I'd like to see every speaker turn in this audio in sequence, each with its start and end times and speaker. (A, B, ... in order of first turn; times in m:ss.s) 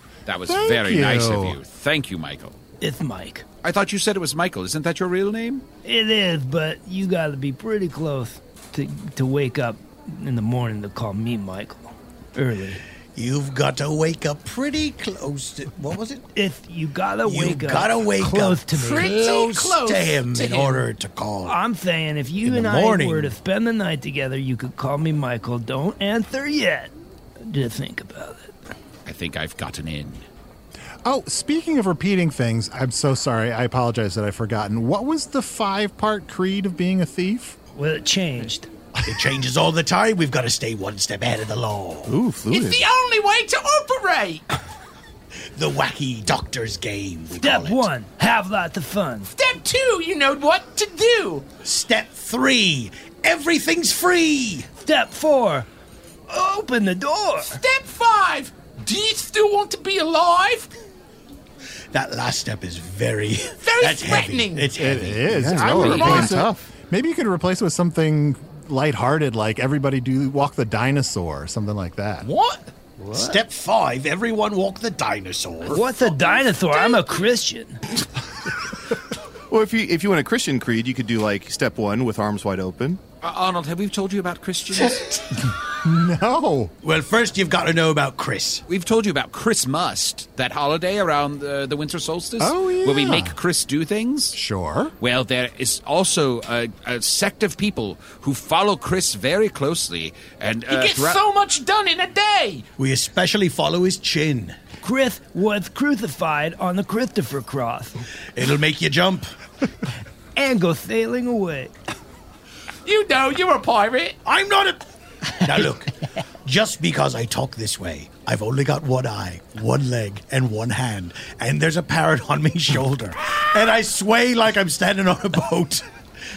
0:00.2-0:02.6 A
0:00.5-0:01.6 B
0:02.8-0:03.4 C
0:03.6-0:05.6 A
0:05.8-0:12.8 C
0:13.1-0:16.2 D
0:16.3-0:19.1 C
0:17.2-0:21.6 D
0:18.7-0:20.8 E
0:21.4-0:26.9 C
0:22.4-0:23.4 D
0:27.5-0:28.6 C
0:29.0-0:30.2 A
0:31.0-0:37.6 B
0:37.7-0:38.7 C
0:39.0-0:42.1 D
0:42.1-0:42.8 F
0:42.5-0:44.4 E
0:45.5-0:47.9 D
0:47.4-0:49.3 C
0:49.3-0:51.4 E
0:51.6-0:54.7 D
0:54.8-0:55.7 C
0:56.3-0:57.6 C
0:57.4-1:00.7 E
1:01.9-1:06.0 D
1:03.6-1:04.7 E
1:04.8-1:12.3 B
1:05.3-1:06.7 F
1:05.6-1:06.4 E
1:12.2-1:12.7 E
1:13.0-1:13.4 C
1:13.1-1:15.8 D
1:15.7-1:17.8 C
1:19.5-1:23.0 F
1:23.2-1:25.0 A
1:24.9-1:25.2 D
1:25.7-1:26.7 B
1:26.8-1:28.6 D
1:28.7-1:34.4 A
1:32.4-1:33.4 B
1:34.3-1:34.9 B
1:35.0-1:41.2 A
1:40.7-1:42.6 E
1:42.8-1:44.6 D
1:44.8-1:48.0 C
1:48.3-1:49.3 D
1:50.4-1:51.7 C
1:52.8-1:54.2 E
1:54.2-1:54.8 D
1:55.4-1:55.9 D
1:56.4-2:05.8 D